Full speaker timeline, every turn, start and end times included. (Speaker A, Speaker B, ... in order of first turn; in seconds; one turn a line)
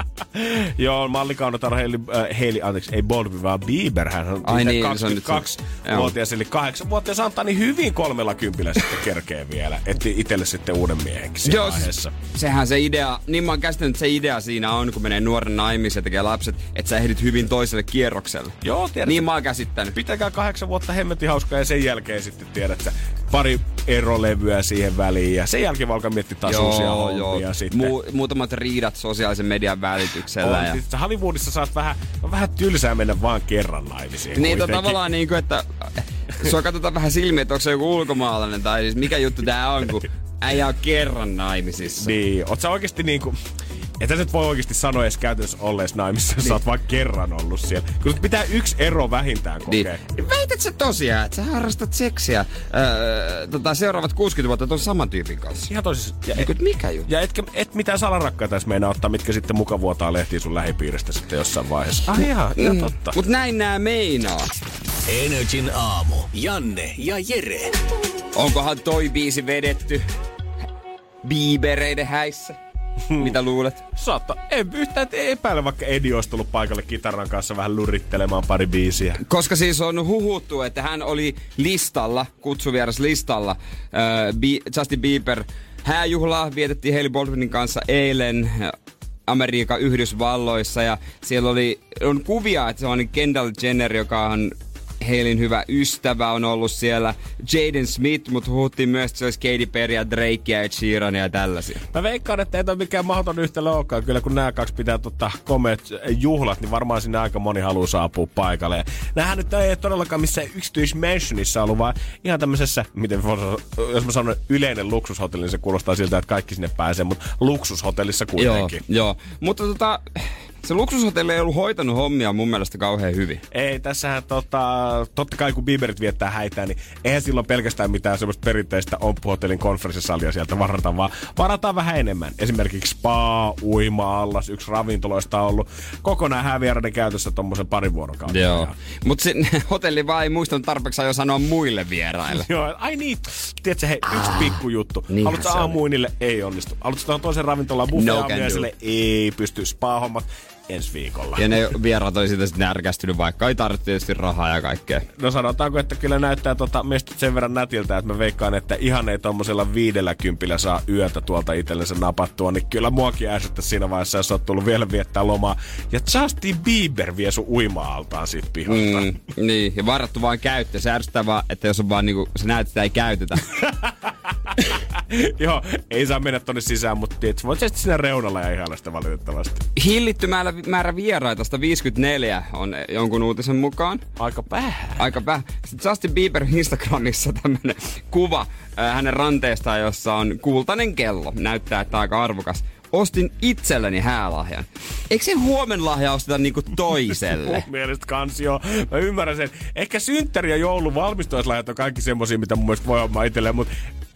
Speaker A: 0.3-12.1
Speaker B: 4.4-6.1
Speaker B: 11.4-19.9
Speaker A: 18.6-19.3
Speaker A: 19.9-27.9
Speaker B: 26.4-30.8
Speaker A: 30.4-35.0
Speaker B: 34.3-42.1
Speaker A: 42.0-43.4
Speaker A: 44.0-50.0
Speaker B: 49.7-55.7
Speaker A: 55.6-56.5
Speaker B: 56.3-57.1
Speaker A: 57.0-63.2
Speaker B: 62.6-64.5
Speaker C: 65.1-67.7
Speaker B: 68.3-70.0
Speaker B: 71.2-72.6
Speaker A: 73.1-73.3
Speaker B: 73.1-73.8
Speaker A: 73.9-79.2
Speaker B: 79.2-88.7
Speaker B: 89.3-101.8
Speaker A: 101.9-118.8
Speaker B: 118.4-123.4
Speaker A: 123.5-138.8
Speaker B: 138.3-142.5
Speaker A: 142.3-151.5
Speaker B: 144.1-144.5
Speaker B: 145.1-145.8
Speaker B: 147.9-148.7
Speaker B: 151.4-155.1
Speaker A: 155.2-169.1
Speaker B: 168.7-173.5
Speaker A: 173.6-173.9
Speaker A: 174.5-179.7
Speaker B: 179.8-184.0
Speaker A: 184.2-185.0
Speaker B: 185.0-197.6
Speaker A: 197.2-203.7